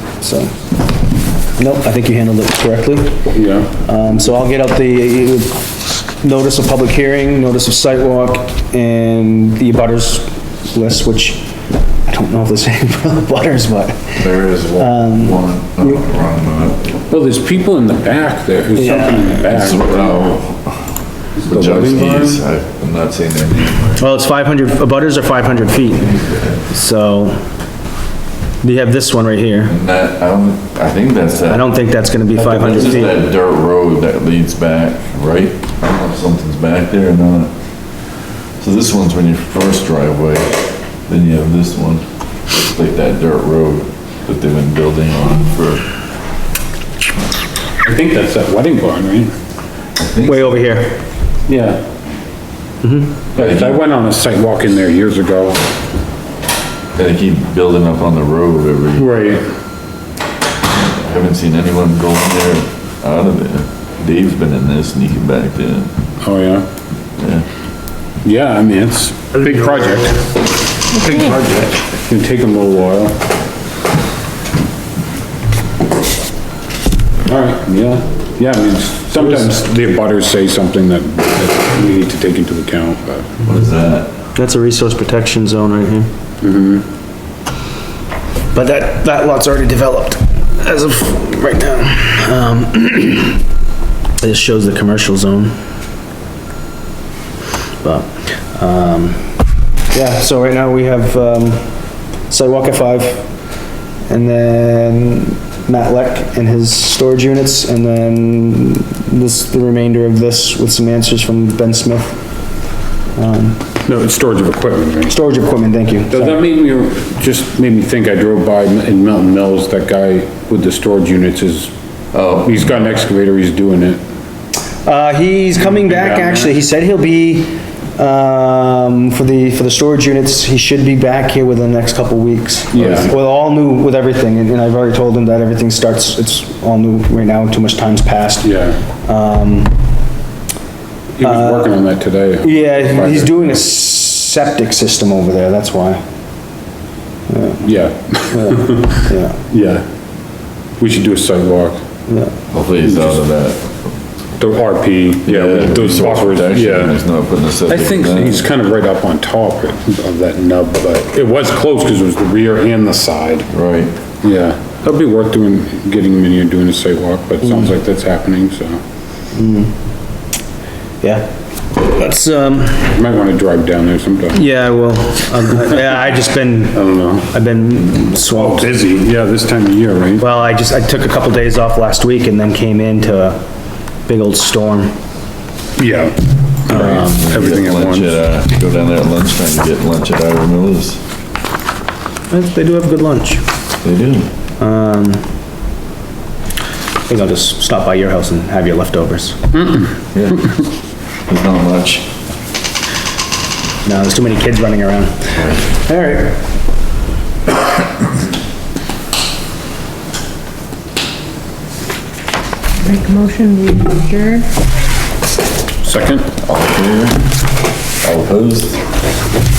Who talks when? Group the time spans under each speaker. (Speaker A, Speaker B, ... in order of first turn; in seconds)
Speaker A: 0.2-0.6, 1.6-5.7, 6.2-11.5, 12.1-14.2, 14.8-16.0, 18.8-19.4, 24.0-27.4, 28.6-29.7, 31.5-33.2, 50.2-51.0, 52.8-53.2, 71.1-71.6, 84.3-86.1, 88.5-93.4, 94.2-95.6, 97.8-99.3, 99.9-101.7, 102.3-103.3, 104.1-112.2, 113.2-113.6, 115.1-116.4, 124.8-139.8, 141.2-141.7, 142.4-146.0, 147.3-147.7, 148.3-149.4, 152.1-152.3, 169.3-169.7, 171.0-172.9, 174.3-178.8, 180.2-183.4, 184.1-184.9, 186.7-187.3, 192.3-193.4, 194.6-195.2, 197.1-199.5, 203.8-206.4
Speaker B: 3.3-3.7, 17.1-20.2, 21.4-22.4, 32.4-32.9, 47.8-49.3, 51.5-51.8, 53.3-55.6, 59.0-59.5, 66.2-66.7, 68.2-70.3, 71.1-73.2, 77.2-83.4, 86.4-86.8, 113.9-115.2, 116.1-121.7, 122.4-124.0, 125.7-126.5, 132.7-133.1, 138.4-138.8, 141.2-143.6, 147.6-149.8, 150.8-151.8, 152.9-153.2, 154.4-157.0, 157.7-163.5, 164.2-168.8, 172.9-174.4, 176.7-177.3, 178.3-180.2, 185.8-188.2, 199.5-199.9, 215.8-216.3
Speaker C: 14.2-16.9, 19.4-20.9, 21.4-24.0, 29.7-31.7, 32.5-37.5, 38.6-45.9, 50.0-50.6, 53.4-53.8, 57.0-59.1, 60.7-65.9, 67.2-67.5, 83.4-84.1, 122.1-122.6, 152.5-153.8, 155.2-158.4, 163.5-163.9, 186.7-191.0, 193.8-194.3, 200.1-200.6, 201.3-202.1, 205.3-205.7, 216.4-217.3, 218.0-218.8
Speaker D: 71.0-71.3, 212.8-214.5